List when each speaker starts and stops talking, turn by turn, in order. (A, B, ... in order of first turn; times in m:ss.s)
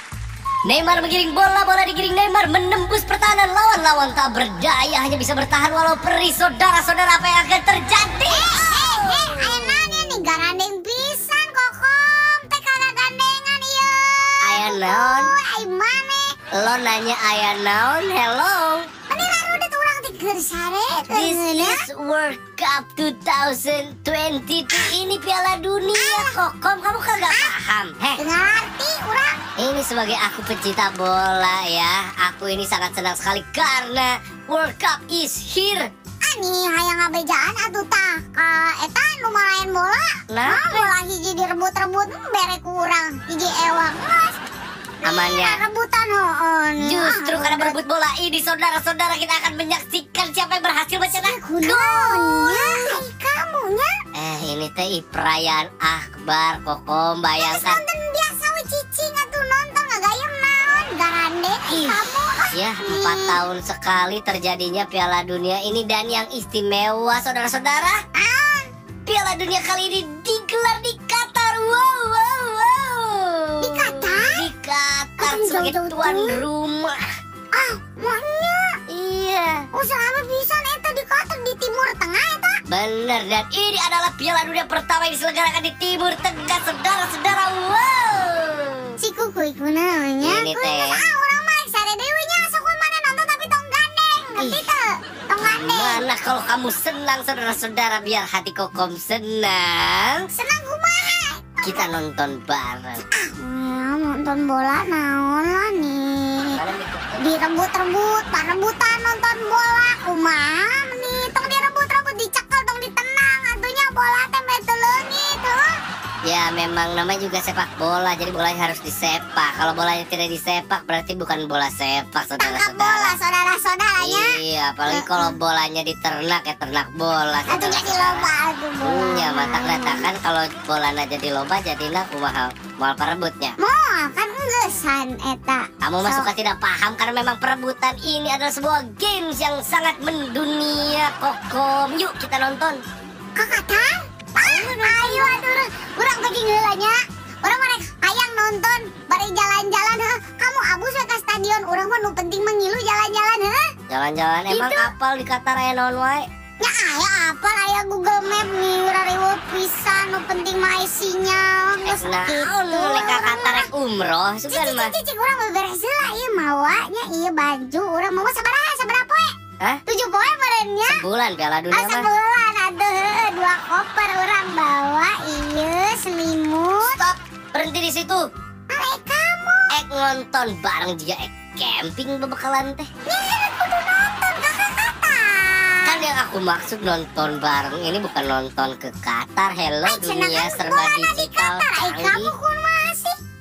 0:00.6-0:10.1 A
0:08.3-0:16.4 B
0:14.4-0:15.3 A
0:16.6-0:18.8 A
0:19.1-0:21.8 B
0:21.1-0:28.2 A
0:25.9-0:26.3 B
0:28.2-0:29.3 B
0:29.6-0:35.9 A
0:36.2-0:44.4 B
0:40.3-0:40.9 A
0:45.0-0:45.6 A
0:45.1-0:47.8 B
0:46.8-0:53.0 A
0:51.1-0:53.9 B
0:54.2-0:57.8 A
0:57.4-1:03.4 B
1:01.7-1:02.0 A
1:02.5-1:08.0 A
1:08.2-1:08.7 B
1:09.1-1:17.0 A
1:13.6-1:14.4 B
1:15.2-1:16.4 B
1:17.5-1:18.8 B
1:18.9-1:19.7 A
1:19.7-1:22.6 B
1:22.7-1:28.9 A
1:29.0-1:36.0 B
1:30.2-1:31.0 A
1:35.4-1:40.2 A
1:40.3-1:41.8 B
1:41.6-1:43.0 A
1:43.2-1:46.6 B
1:46.5-1:47.2 A
1:47.2-1:55.6 B
1:56.3-2:03.2 A
2:02.4-2:04.4 B
2:04.0-2:08.3 A
2:04.9-2:05.4 B
2:07.5-2:10.1 B
2:08.8-2:13.6 A
2:13.6-2:16.3 B
2:15.8-2:22.8 A
2:23.4-2:33.6 B
2:24.4-2:25.4 A
2:33.9-2:36.2 A
2:34.5-2:34.9 B
2:36.6-2:43.7 B
2:41.8-2:44.9 A
2:44.5-2:49.3 B
2:49.9-2:51.0 B
2:50.9-2:52.1 A
2:51.7-2:57.0 B
2:56.8-2:58.2 A
2:58.7-2:59.7 B
2:59.7-3:02.9 A
3:03.1-3:06.0 B
3:05.8-3:12.3 A
3:09.8-3:13.2 B